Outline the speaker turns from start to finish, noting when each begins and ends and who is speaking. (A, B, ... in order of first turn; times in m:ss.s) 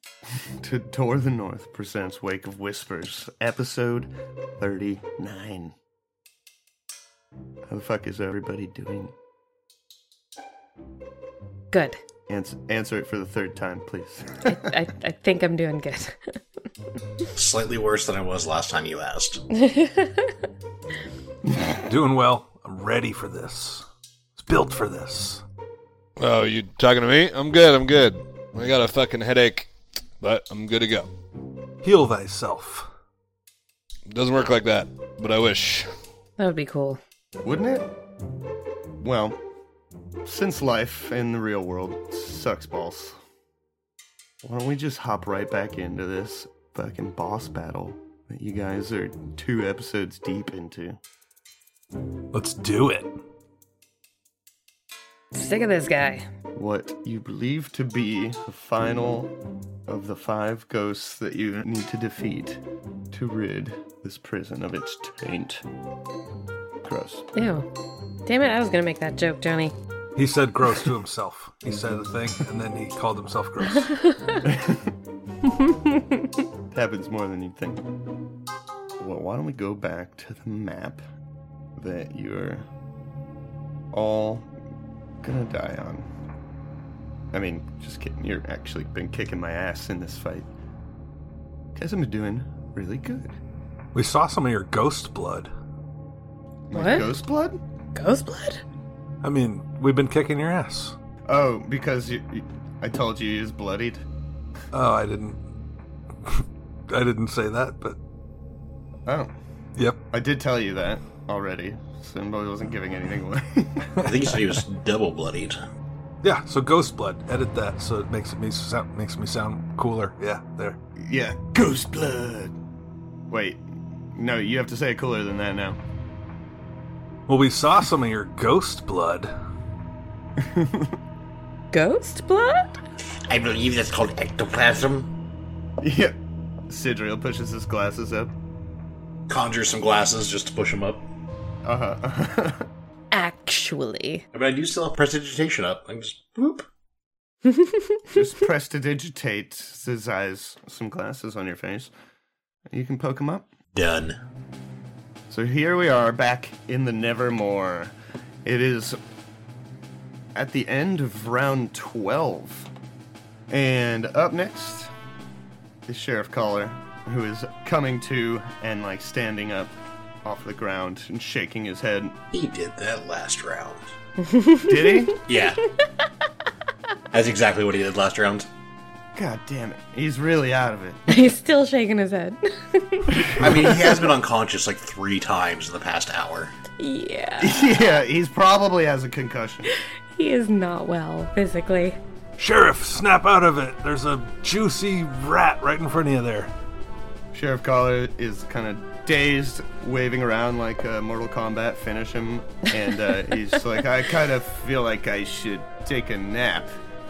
0:00.6-0:05.8 A
0:07.7-0:09.1 A
0:11.7-0:12.0 B
0:12.3-0:14.6 A
0:14.4-0:16.4 B
0:17.4-0:19.4 C
0:19.6-0:20.3 B
0:21.8-0:23.8 D
0:24.4-0:25.4 D
0:26.2-0:31.1 E
0:31.8-0:32.9 D
0:34.1-0:35.9 E
0:36.4-0:37.0 B
0:37.4-0:37.9 A
0:39.0-0:39.4 A
0:40.2-0:43.2 A
0:44.4-0:51.0 A
0:52.3-0:53.1 D
0:55.3-0:56.2 B
0:56.6-0:59.3 A
0:59.9-1:05.6 A
1:06.8-1:07.3 A
1:07.4-1:07.7 B
1:08.3-1:09.8 B
1:10.2-1:14.1 D
1:13.8-1:14.4 B
1:14.5-1:14.9 A
1:15.5-1:16.2 B
1:16.7-1:17.8 A
1:19.0-1:21.0 A
1:21.8-1:22.6 A
1:23.9-1:24.5 A
1:25.2-1:26.1 A
1:27.3-1:30.5 A
1:31.8-1:33.4 A
1:34.0-1:35.5 D
1:36.7-1:37.6 A
1:36.7-1:37.1 B
1:38.0-1:38.6 B
1:39.2-1:41.0 D
1:41.3-1:44.0 A
1:44.7-1:45.5 D
1:46.2-1:48.0 D
1:49.1-1:49.3 A
1:50.1-1:53.9 A
1:54.0-1:55.6 C
1:56.2-2:00.8 D
2:01.0-2:02.6 A
2:03.3-2:03.6 A
2:04.1-2:05.8 A
2:07.3-2:09.3 D
2:10.4-2:11.0 A
2:11.7-2:12.8 B
2:13.3-2:15.1 C
2:15.8-2:16.2 A
2:16.7-2:18.3 A
2:19.3-2:21.0 C
2:21.6-2:22.7 A
2:23.1-2:24.2 B
2:24.3-2:26.7 C
2:27.5-2:28.0 B
2:28.1-2:31.9 A
2:32.7-2:33.5 A
2:33.8-2:34.2 C
2:35.3-2:37.9 A
2:38.4-2:39.0 A
2:40.4-2:42.7 A
2:43.5-2:44.9 A
2:45.9-2:52.2 A
2:52.3-2:53.9 C
2:54.2-2:55.1 B
2:54.6-2:55.2 A
2:55.3-2:55.6 C
2:57.1-2:58.5 C
2:59.2-3:01.1 A
3:01.1-3:03.4 B
3:03.2-3:06.5 C
3:03.6-3:03.9 A
3:06.8-3:07.9 B
3:07.4-3:09.7 A
3:09.7-3:12.0 B
3:12.4-3:16.5 D
3:17.3-3:26.8 A